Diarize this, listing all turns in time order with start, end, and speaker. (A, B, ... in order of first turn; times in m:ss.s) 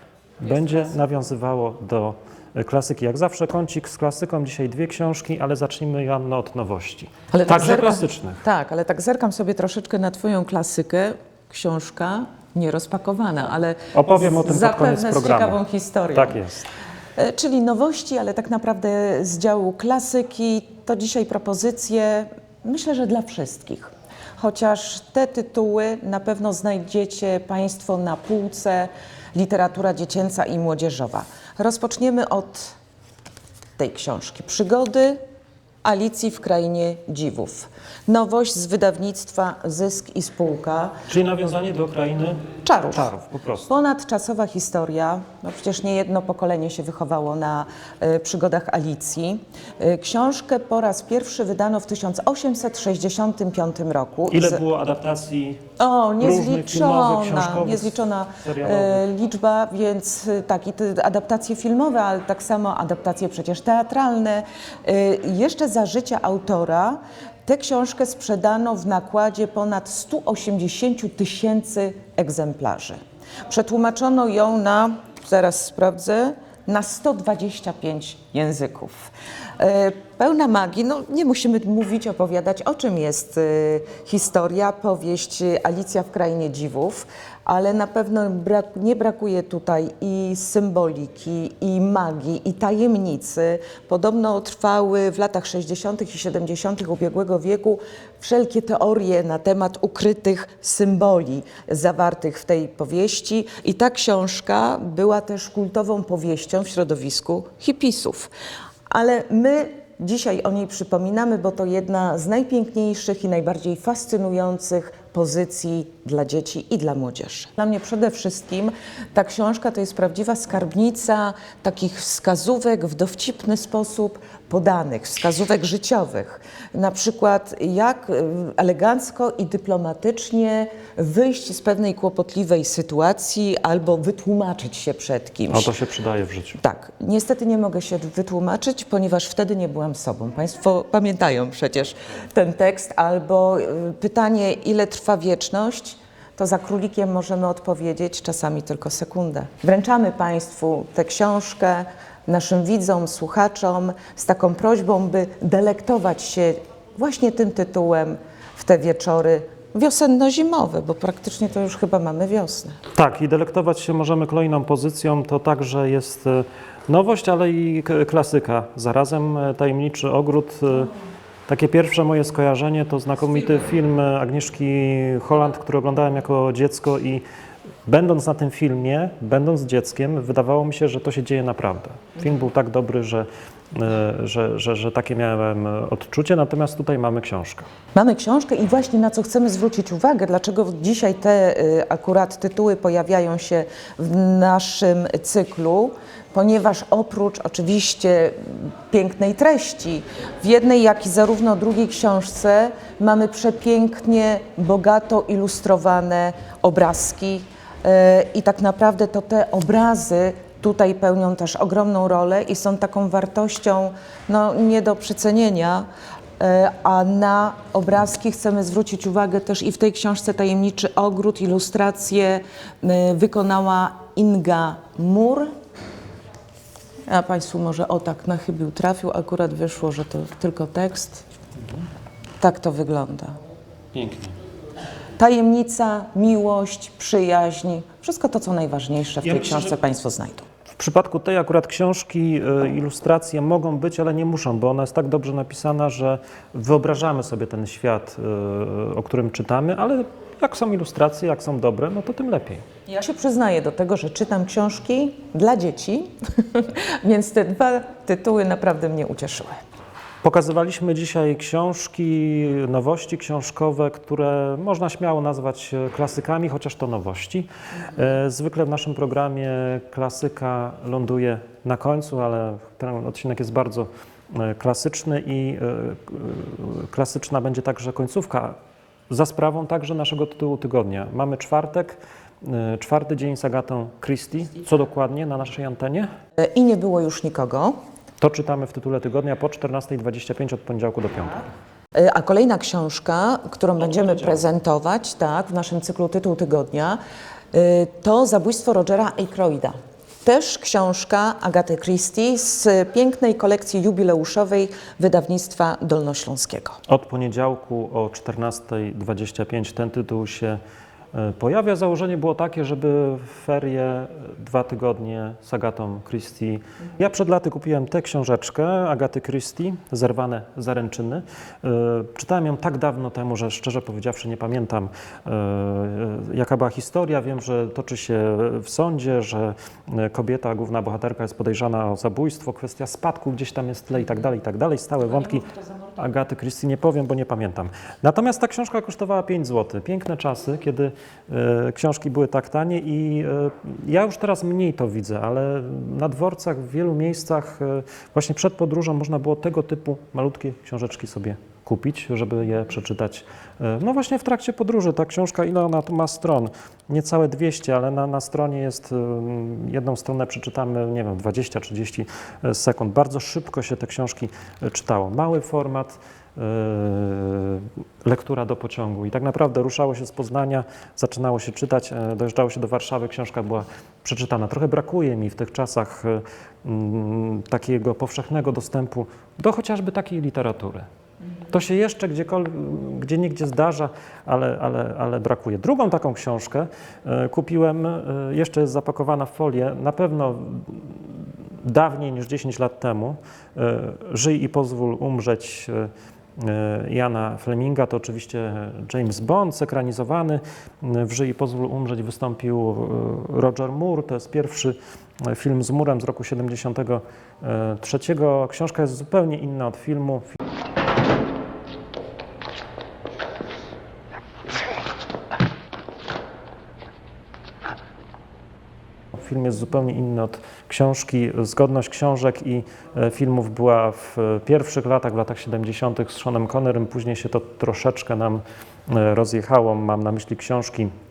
0:00.4-0:08.4 A
0:07.3-0:16.4 B
0:13.9-0:15.6 A
0:16.2-0:16.7 A
0:17.2-0:32.8 B
0:33.8-0:35.2 B
0:35.8-0:41.0 B
0:41.1-0:43.7 A
0:42.6-0:43.1 B
0:43.7-0:54.6 B
0:54.3-0:55.6 A
0:55.8-1:48.3 B
0:56.2-0:59.0 A
1:48.9-2:15.7 B
2:15.5-2:16.6 A
2:16.6-2:42.8 B
2:42.9-2:50.9 A
2:51.5-2:57.2 A
2:57.8-3:07.7 A
3:07.9-3:35.9 B
3:36.4-3:45.5 B
3:47.1-3:51.2 B
3:52.4-3:53.4 B
3:53.9-3:54.3 A
3:55.2-4:00.4 B
3:59.2-3:59.7 A
4:00.7-4:12.6 A
4:12.9-4:19.6 B
4:20.2-4:38.6 A
4:39.1-4:46.1 A
4:46.4-4:47.8 B
4:48.2-4:51.5 A
4:51.9-4:57.0 B
4:57.5-5:06.8 B
5:06.9-5:10.6 A
5:11.1-6:20.9 A
6:21.5-6:50.3 A
6:59.1-7:10.9 A